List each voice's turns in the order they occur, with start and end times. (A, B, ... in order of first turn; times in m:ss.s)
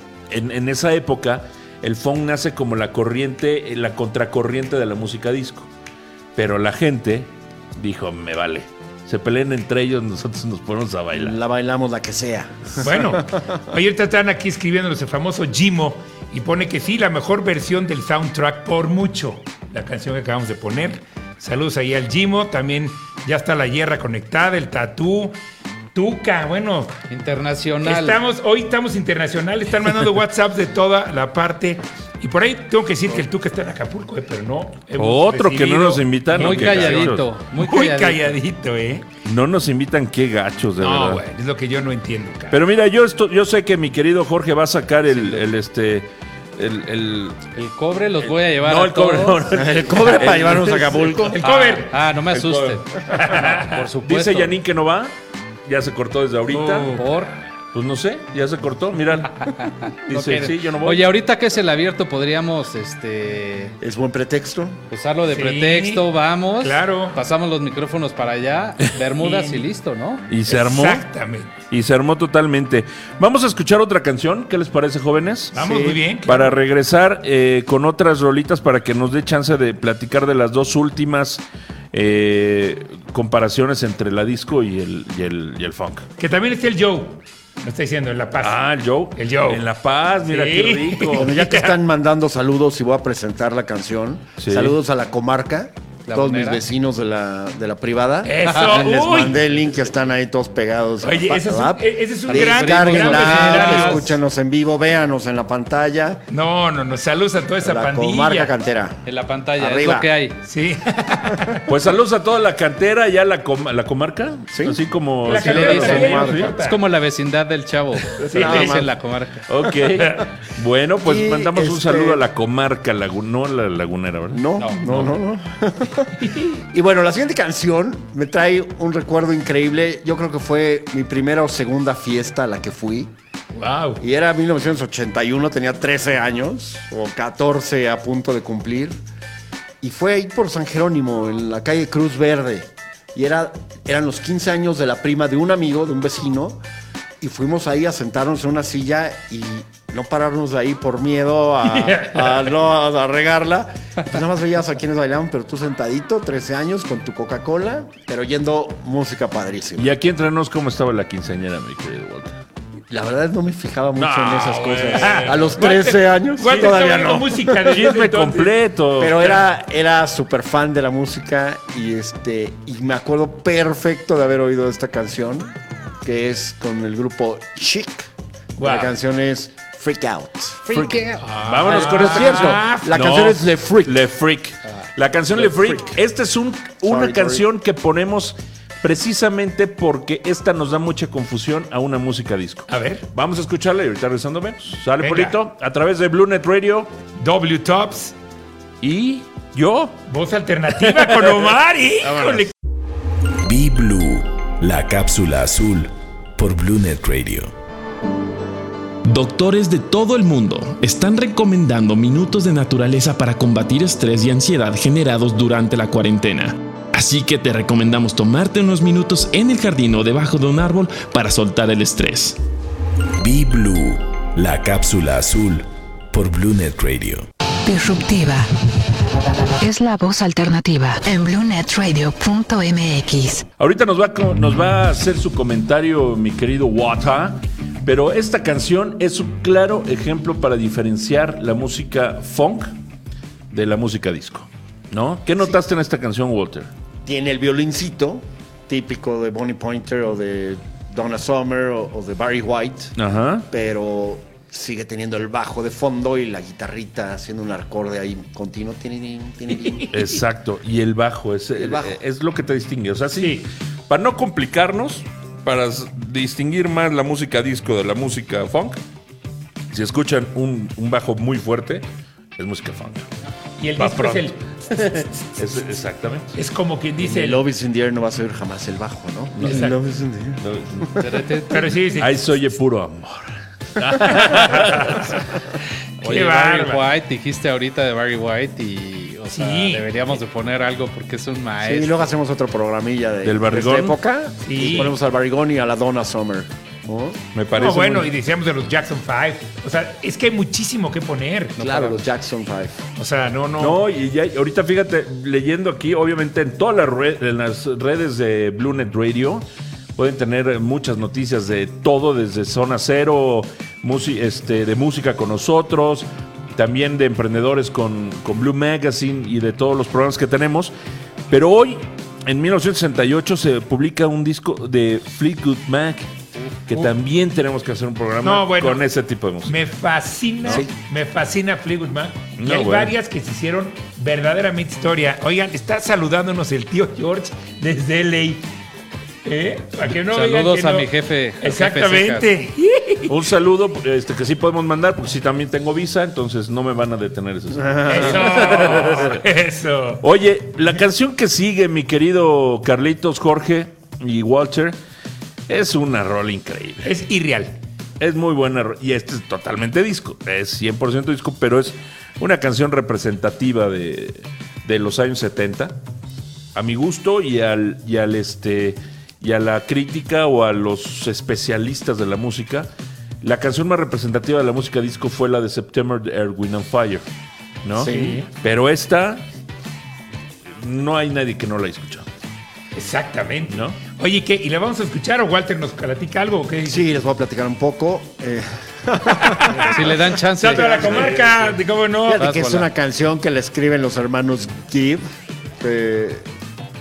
0:00.3-0:05.7 A
0:06.4-0:11.4 A
0:11.2-0:13.2 B
0:12.8-0:25.4 C
0:26.0-0:27.0 C
0:27.1-0:28.2 D
0:27.8-0:39.1 C
0:35.0-0:37.3 A
0:36.3-0:38.3 D
0:39.2-0:41.2 A
0:40.8-0:42.6 C
0:42.5-0:47.5 A
0:45.1-0:45.5 D
0:47.6-0:49.5 D
0:48.3-0:51.3 A
0:49.5-0:51.4 B
0:51.3-0:51.9 C
0:51.4-0:54.5 D
0:52.3-0:55.1 A
0:53.1-0:53.8 C
0:55.7-0:57.0 A
0:56.5-0:57.1 C
0:56.7-0:57.3 D
0:57.7-0:59.4 A
0:59.4-1:03.8 D
1:00.1-1:01.1 A
1:03.8-1:04.8 B
1:04.9-1:10.2 D
1:05.3-1:06.1 C
1:06.6-1:07.2 C
1:09.2-1:09.6 C
1:10.3-1:11.1 A
1:10.5-1:11.5 C
1:11.7-1:26.1 A
1:15.6-1:16.5 C
1:26.2-1:28.6 C
1:28.4-1:31.3 A
1:29.2-1:29.6 C
1:30.3-1:31.7 C
1:31.1-1:46.2 B
1:34.4-1:34.8 A
1:36.1-1:36.6 D
1:38.2-1:39.4 C
1:41.0-1:44.1 C
1:42.3-1:44.1 D
1:46.3-1:48.5 C
1:47.6-1:49.0 B
1:49.1-1:50.4 D
1:49.6-1:50.1 B
1:50.5-1:51.7 C
1:51.7-1:56.5 A
1:54.5-1:54.8 B
1:55.2-1:56.8 C
1:55.3-1:59.4 D
1:58.2-1:58.9 B
1:58.2-1:58.8 C
1:59.5-2:04.9 A
2:00.0-2:00.3 C
2:01.0-2:02.2 B
2:04.3-2:06.2 B
2:04.6-2:05.1 D
2:06.2-2:06.6 C
2:06.7-2:13.1 B
2:13.6-2:14.0 C
2:14.0-2:19.0 B
2:19.8-2:26.6 B
2:27.2-2:40.0 B
2:31.8-2:32.4 C
2:39.8-2:42.4 A
2:42.9-2:48.0 B
2:44.0-2:45.6 A
2:44.6-2:48.6 C
2:46.4-2:46.8 A
2:47.7-2:49.4 A
2:49.0-3:01.0 B
2:58.6-2:58.9 C
3:00.8-3:01.3 D
3:01.2-3:03.0 C
3:01.4-3:16.9 A
3:01.6-3:04.0 B
3:05.4-3:06.0 B
3:06.8-3:07.4 B
3:12.7-3:13.0 C
3:15.0-3:15.4 C
3:17.2-3:18.2 C
3:18.8-3:20.0 A
3:20.1-3:22.5 C
3:20.8-3:22.5 A
3:23.4-3:27.5 E
3:29.1-3:42.4 F
3:43.2-3:47.3 E
3:47.7-3:48.5 G
3:49.6-3:53.5 G
3:53.6-4:02.7 A
4:03.5-4:06.7 A
4:07.0-4:13.0 B
4:13.0-4:13.5 A
4:13.5-4:19.8 B
4:19.7-4:20.0 C
4:19.9-4:28.8 A
4:21.6-4:22.0 B
4:23.2-4:23.4 C
4:29.7-4:31.8 A
4:32.4-4:33.1 A
4:33.6-4:35.0 C
4:33.8-4:36.4 A
4:36.4-4:37.4 C
4:37.0-4:41.0 B
4:39.4-4:39.7 A
4:39.4-4:39.8 C
4:40.4-4:40.9 A
4:41.0-4:41.7 D
4:41.5-4:42.2 C
4:42.0-4:45.2 A
4:44.4-4:44.9 C
4:46.0-4:46.9 C
4:46.0-4:52.0 D
4:49.3-4:49.9 C
4:51.6-4:57.2 B
4:53.2-4:54.0 A
4:54.4-4:54.9 C
4:54.6-4:54.9 A
4:57.3-4:58.1 A
4:57.6-5:01.7 C
5:01.6-5:02.8 B
5:03.0-5:03.8 C
5:03.6-5:09.4 A
5:10.0-5:20.7 A
5:21.3-5:26.1 A
5:26.7-5:29.6 A
5:28.2-5:28.8 C
5:29.5-5:38.4 C
5:32.4-5:33.0 A
5:39.2-5:43.1 C
5:40.1-5:42.3 D
5:43.1-5:49.2 A
5:47.6-5:48.1 B
5:47.8-5:50.0 C
5:50.0-5:54.8 A
5:55.5-5:56.9 A
5:56.8-5:57.6 C
5:58.0-6:05.8 A
6:06.6-6:12.7 A
6:13.2-6:17.0 A
6:17.6-6:19.2 A
6:17.7-6:18.2 B
6:17.8-6:18.3 C
6:20.6-6:22.1 A
6:22.8-6:26.8 C
6:23.5-6:23.8 A
6:26.6-6:29.9 B
6:29.5-6:32.2 C
6:29.7-6:31.1 D
6:30.6-6:30.9 B
6:32.1-6:35.0 B
6:32.1-6:32.7 D
6:35.6-6:36.3 B